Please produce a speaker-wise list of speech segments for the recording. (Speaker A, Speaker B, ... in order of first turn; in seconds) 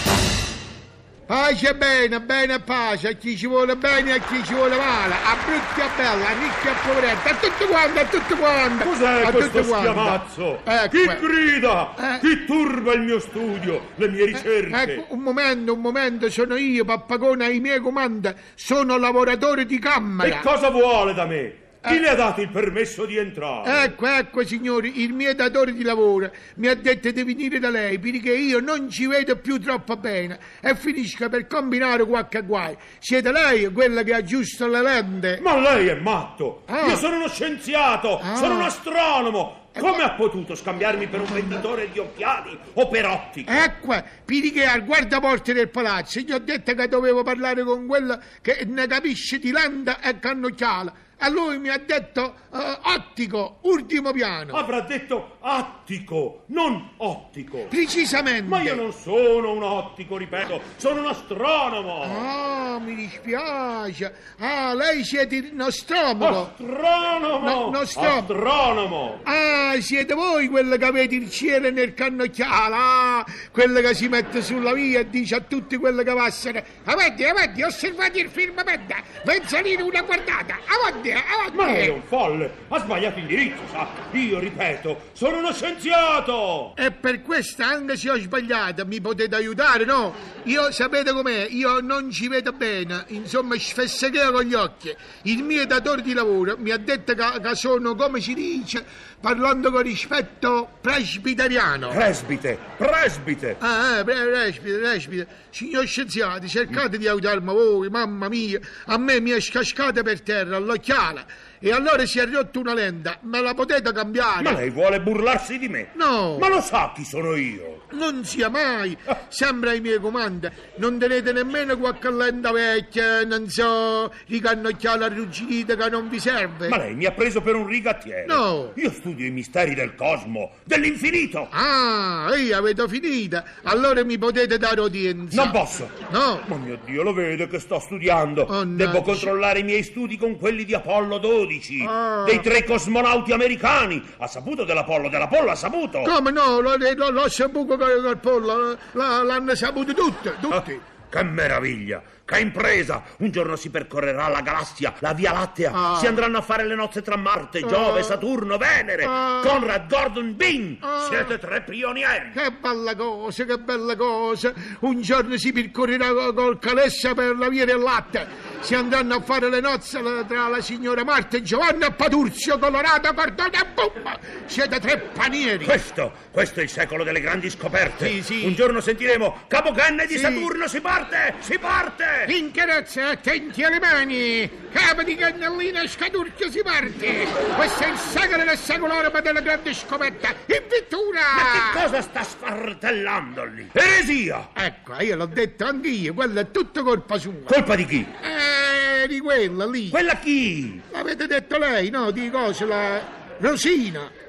Speaker A: 1.3-11.2, 12.0-12.3, 14.3-20.5, 23.6-35.5, 36.7-37.1, 38.2-38.7, 39.8-40.0, 43.5-54.7, 57.7-58.8, 62.0-66.5, 67.4-68.3, 69.2-82.0, 86.8-102.0, 103.6-114.6, 115.9-116.5, 117.9-126.8, 128.3-128.8, 131.5-136.5, 138.4-139.3, 141.8-142.5, 146.0-150.8, 155.7-156.2, 157.6-158.2, 159.0-159.7, 160.8-161.4, 162.3-175.8, 178.0-178.6, 180.1-180.5, 182.3-191.9, 194.6-197.6, 198.2-200.0, 200.9-204.1
Speaker B: 8.8-15.0, 20.2-23.9, 35.4-43.7, 54.5-57.7, 58.5-62.3, 66.2-69.2, 81.5-86.8, 101.9-103.6, 114.4-117.8, 126.7-131.5, 135.3-146.1, 150.5-162.4, 175.6-182.3, 191.3-194.5, 197.5-198.1, 199.9-200.8